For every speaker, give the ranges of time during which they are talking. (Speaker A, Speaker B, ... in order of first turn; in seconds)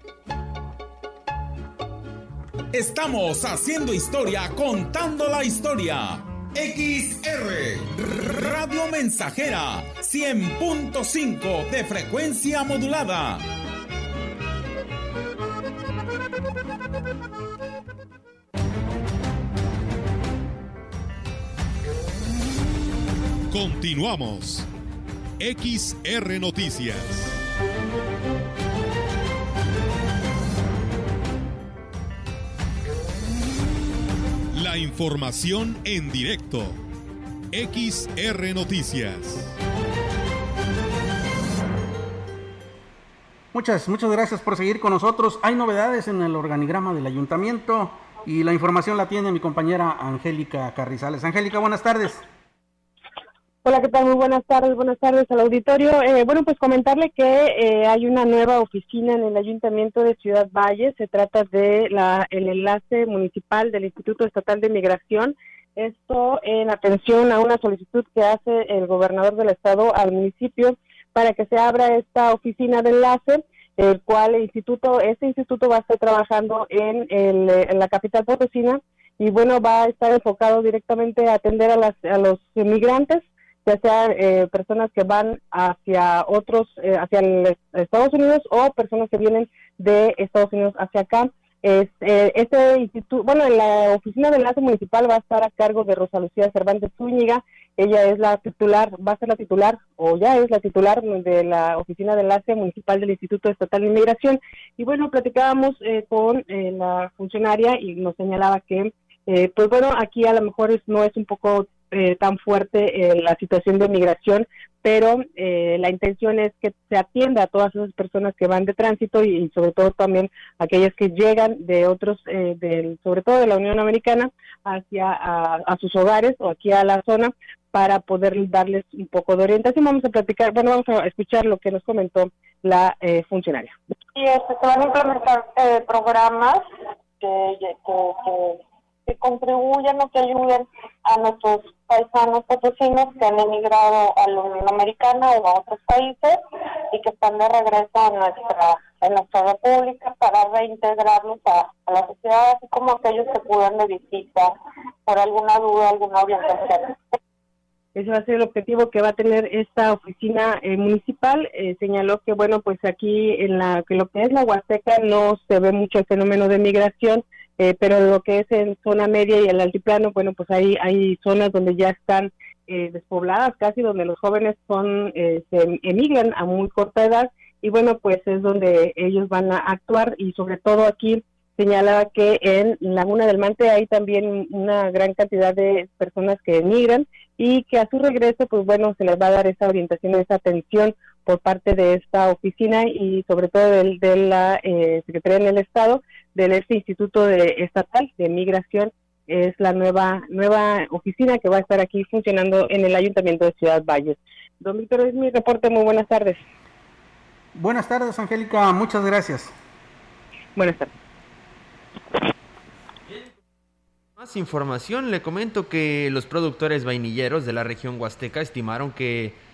Speaker A: 2.7-13.4
Speaker B: 23.5-24.7, 25.4-27.4, 34.5-36.8, 37.5-39.5
Speaker C: 43.5-52.2, 207.6-209.5
Speaker D: 53.6-133.7, 157.9-206.4, 210.6-210.9
Speaker E: 134.1-136.6, 137.2-154.5, 155.1-157.1
Speaker F: 213.1-213.3, 214.2-219.4